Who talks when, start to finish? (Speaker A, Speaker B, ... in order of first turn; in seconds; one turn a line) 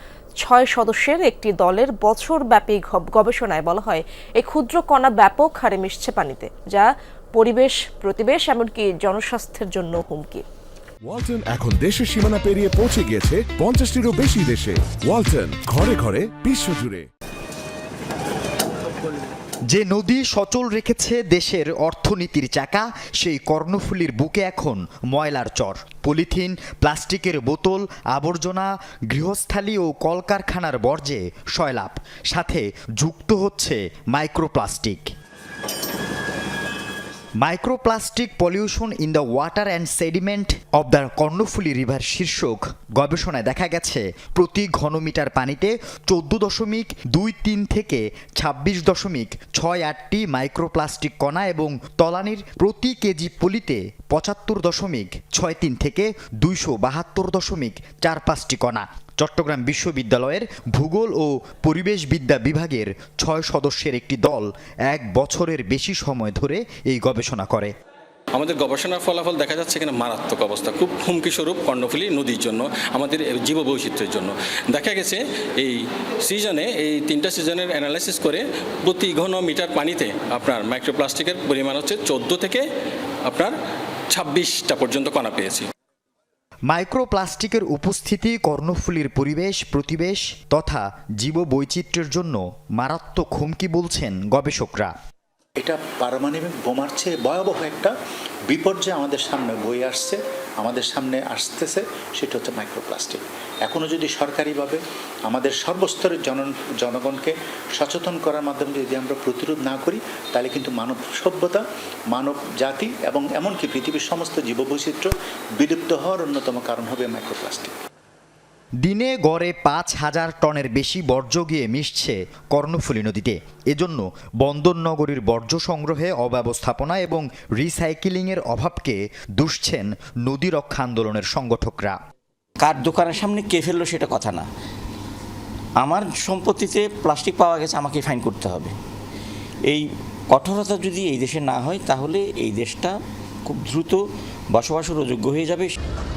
Speaker A: 0.4-10.4
Speaker B: 11.1-17.1
Speaker C: 19.7-35.1
Speaker C: 37.4-67.7
Speaker D: 68.3-82.7
Speaker D: 83.3-83.5
Speaker D: 84.1-85.7
Speaker C: 86.7-94.9
Speaker E: 95.6-97.9
Speaker E: 98.5-117.8
Speaker C: 118.8-132.0
Speaker F: 132.6-134.4
Speaker F: 135.8-138.7
Speaker F: 139.7-142.9
Speaker F: 143.5-144.0
Speaker F: 144.5-145.8